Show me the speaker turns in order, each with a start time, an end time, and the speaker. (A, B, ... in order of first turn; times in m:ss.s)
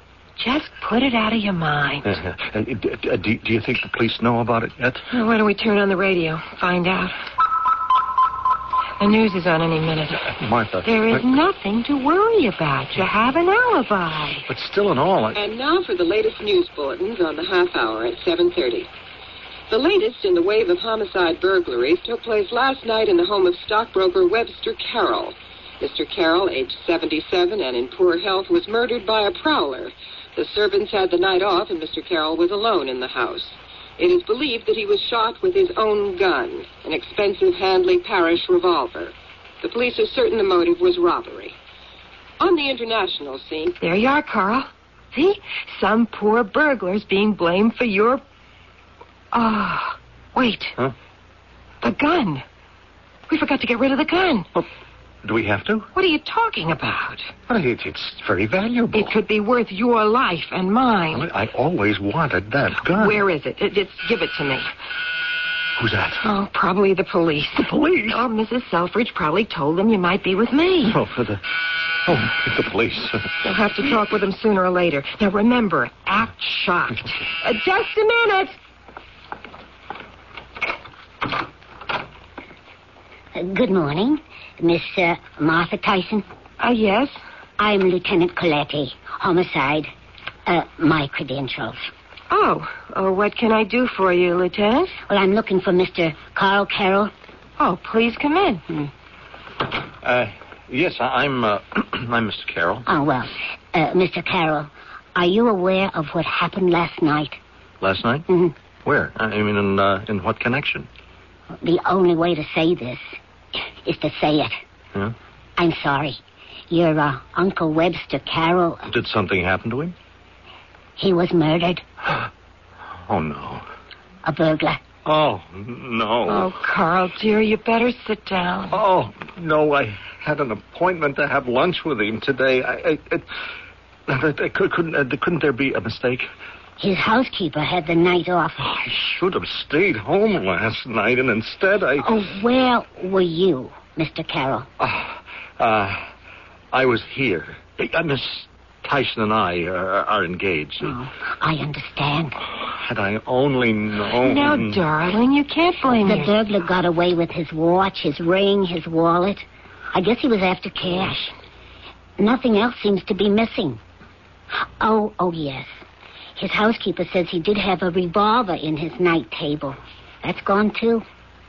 0:00.4-0:02.1 A
0:02.0-0:05.0 B
0:05.1-0:07.1 A
0:09.0-0:10.3 A
0:10.4-0:11.3 B
0:10.8-0:14.4 A
0:14.5-0:15.4 B
0:15.3-0:18.9 C
0:19.7-0:41.6 C
0:42.4-0:43.8 C
0:43.8-0:48.2 A
0:49.3-0:50.8 A
0:51.8-0:52.4 A
0:53.3-0:54.5 A
0:55.2-0:55.9 B
0:55.9-0:57.3 A
0:57.5-0:59.2 B
0:58.9-1:01.3 A
1:01.1-1:03.2 B
1:02.9-1:04.7 A
1:05.8-1:06.2 B
1:06.2-1:11.0 A
1:07.6-1:08.2 B
1:10.9-1:11.4 B
1:12.0-1:13.3 B
1:13.4-1:18.6 A
1:23.3-1:26.2 D
1:26.6-1:27.2 A
1:27.6-1:29.9 D
1:30.4-1:31.9 D
1:32.3-1:35.0 A
1:35.1-1:37.1 D
1:37.6-1:38.6 A
1:40.0-1:42.8 B
1:42.8-1:47.4 D
1:47.8-1:48.2 B
1:48.3-1:48.5 D
1:48.8-1:50.9 B
1:51.6-1:53.1 D
1:53.8-1:54.6 D
1:55.6-1:58.8 D
1:58.9-1:59.9 B
2:01.0-2:01.8 D
2:03.0-2:03.6 B
2:04.2-2:04.8 D
2:05.0-2:06.5 B
2:06.3-2:08.8 A
2:08.7-2:13.2 B
2:14.1-2:16.3 B
2:16.8-2:18.9 D
2:18.9-2:22.1 B
2:22.0-2:24.7 D
2:24.8-2:26.1 B
2:26.7-2:31.0 B
2:30.8-2:32.3 D
2:32.5-2:34.8 B
2:34.2-2:36.4 A
2:36.0-2:41.3 D
2:42.2-2:43.8 D
2:44.8-2:45.8 D
2:46.4-2:51.0 D